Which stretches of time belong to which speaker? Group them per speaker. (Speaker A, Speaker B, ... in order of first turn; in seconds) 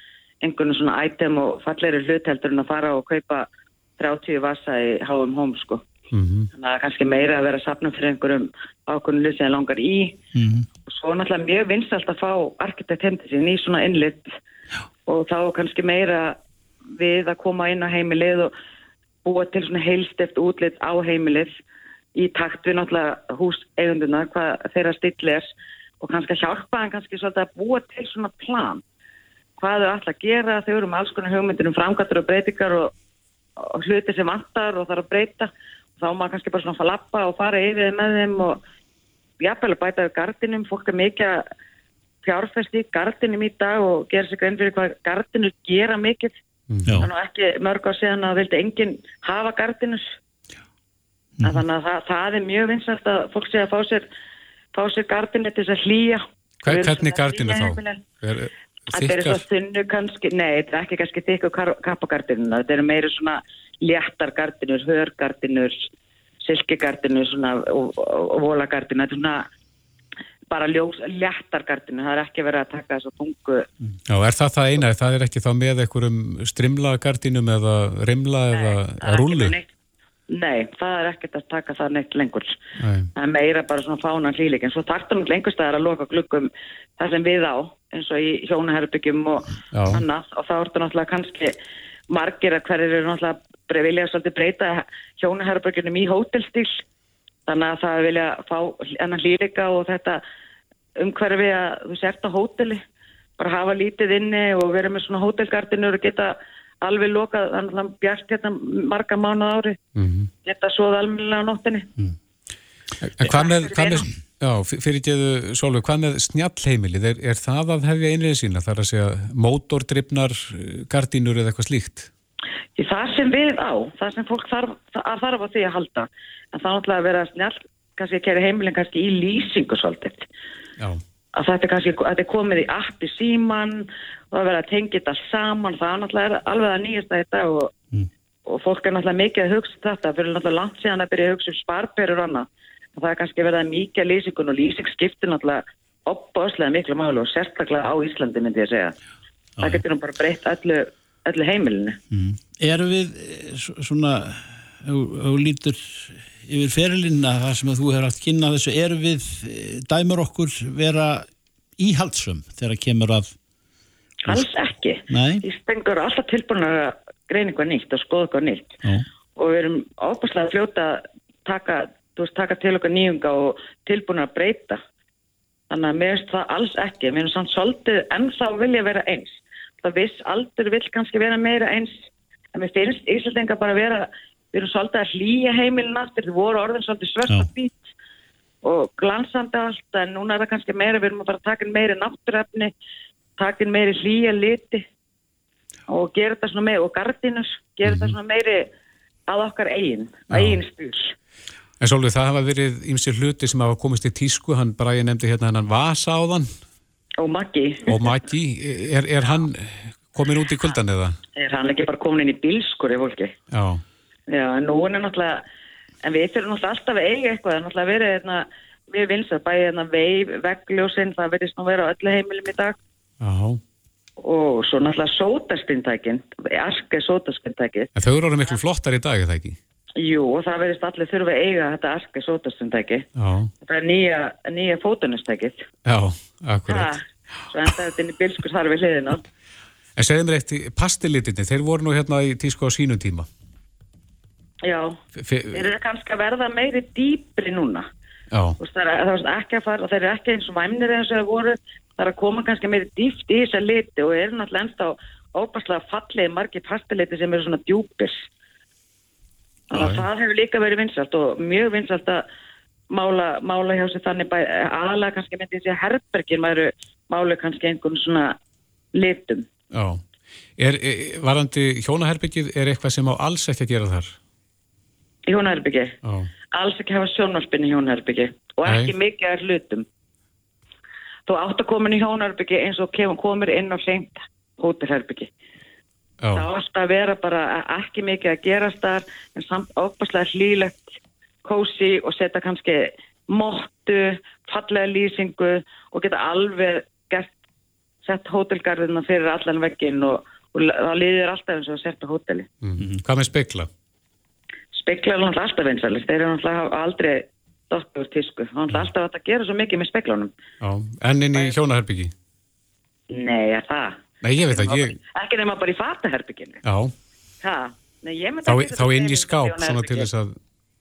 Speaker A: 0.4-5.9, 6.5-10.2, 10.9-14.3, 15.1-16.4, 17.0-18.5, 19.2-21.5, 22.1-25.5, 26.0-28.8, 29.6-32.9, 33.6-38.6, 39.4-41.4, 42.2-46.3, 47.0-50.1, 51.4-54.1, 54.7-58.0, 58.9-65.9, 66.4-69.5, 70.5-73.7, 78.5-79.7, 80.3-82.6, 83.2-91.6, 92.1-96.8, 97.5-100.2, 101.0-102.8, 103.4-109.8, 110.4-111.9, 113.2-114.0, 122.8-130.3, 131.3-137.7, 138.5-148.9, 149.6-152.0, 164.3-168.8, 169.4-174.8, 175.7-187.9, 188.6-192.7, 193.4-194.9, 195.9-198.7, 199.3-201.2, 207.2-208.2, 211.3-213.3, 214.3-215.4, 216.0-222.8, 224.2-227.9, 230.0-233.1, 233.6-235.7, 236.7-239.2, 244.6-245.0, 245.5-247.9, 248.6-258.3, 259.7-262.2, 262.9-268.4, 268.9-269.5, 275.3-276.0, 276.5-279.9, 281.3-285.3, 286.3-297.3, 298.0-302.5, 304.7-310.3, 311.4-311.6, 313.1-316.6, 317.4-320.1
Speaker B: 6.1-6.5, 46.7-47.1, 56.6-59.4, 74.1-79.6, 82.8-83.1, 89.7-90.0, 110.0-110.3, 113.0-122.1, 197.8-198.1, 200.3-200.6, 201.8-206.5, 207.9-211.2, 213.5-213.8, 223.2-223.6, 228.0-229.6, 233.2-233.5, 235.9-236.9, 240.0-243.3, 245.2-245.7, 248.3-248.6, 259.7-260.1, 269.7-270.0, 270.6-274.2, 276.0-276.3, 278.6-278.9, 286.2-286.5, 302.6-303.7, 310.6-312.1, 314.2-315.0, 316.6-316.9, 318.4-320.4
Speaker C: 10.3-10.7, 51.4-51.6, 149.6-149.8, 152.1-161.3, 161.8-163.4, 165.1-165.4